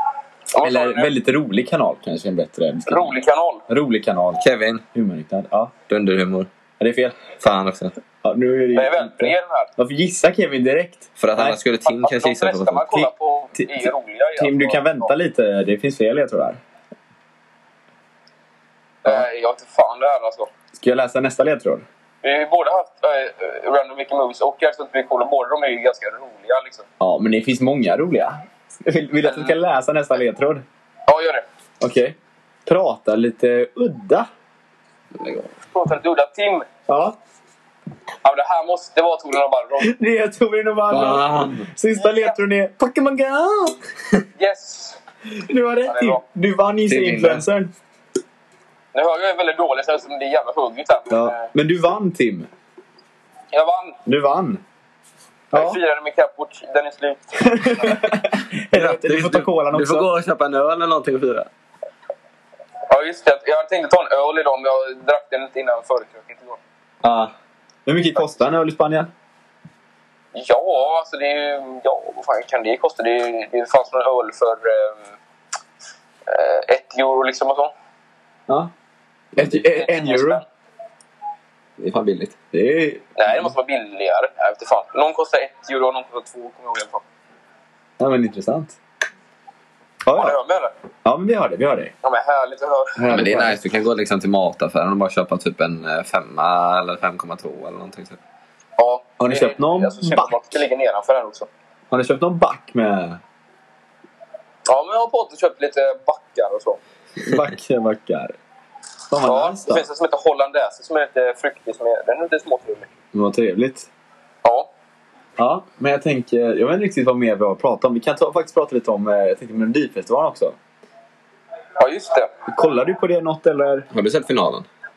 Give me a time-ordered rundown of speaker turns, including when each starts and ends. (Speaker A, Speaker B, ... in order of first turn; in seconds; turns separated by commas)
Speaker A: 0.5-1.1, Speaker B: 0.6-3.1, Speaker A: 2.9-3.6, Speaker B: 3.7-4.4, Speaker C: 4.4-4.8, Speaker B: 4.9-5.7, Speaker C: 5.9-6.5, Speaker B: 6.8-7.3, Speaker C: 7.4-8.0, Speaker B: 8.2-11.6, Speaker A: 8.7-9.7, Speaker C: 11.2-12.9, Speaker A: 11.8-15.1, Speaker B: 12.9-16.6, Speaker A: 19.0-20.5, Speaker B: 20.8-21.8, Speaker A: 22.2-26.8, Speaker B: 27.0-30.6, Speaker A: 29.2-29.6, Speaker A: 31.1-31.4, Speaker B: 31.8-32.1, Speaker B: 32.6-34.3, Speaker C: 35.1-35.5, Speaker A: 35.7-36.6, Speaker B: 36.9-37.2, Speaker A: 38.2-39.9, Speaker B: 39.8-43.8, Speaker C: 40.9-41.7, Speaker A: 42.0-42.4, Speaker A: 44.4-45.0, Speaker B: 45.4-47.7, Speaker A: 45.9-46.2, Speaker C: 46.9-47.4, Speaker A: 48.9-51.5, Speaker B: 51.1-52.5, Speaker A: 53.5-54.0, Speaker B: 54.0-54.6, Speaker B: 55.5-55.8, Speaker A: 55.5-58.0, Speaker B: 57.4-60.1, Speaker C: 58.7-61.5, Speaker A: 62.9-66.6, Speaker B: 67.0-67.3, Speaker B: 67.8-69.1, Speaker A: 70.3-75.1, Speaker A: 76.3-77.7, Speaker B: 79.3-80.4, Speaker A: 79.6-80.4, Speaker C: 81.8-82.3, Speaker B: 82.5-83.5, Speaker A: 83.2-87.0, Speaker B: 88.0-88.8, Speaker B: 90.0-90.4, Speaker A: 90.1-90.7, Speaker B: 91.0-91.9, Speaker A: 92.0-93.0, Speaker B: 93.0-93.6, Speaker C: 93.1-98.2, Speaker A: 98.8-101.5, Speaker B: 99.2-100.4, Speaker B: 101.9-103.2, Speaker A: 104.7-106.8, Speaker B: 107.2-108.3, Speaker B: 109.1-109.8, Speaker A: 109.2-112.9, Speaker B: 113.1-113.9, Speaker B: 115.4-120.5, Speaker A: 121.8-122.3, Speaker B: 122.5-123.9, Speaker C: 123.9-124.7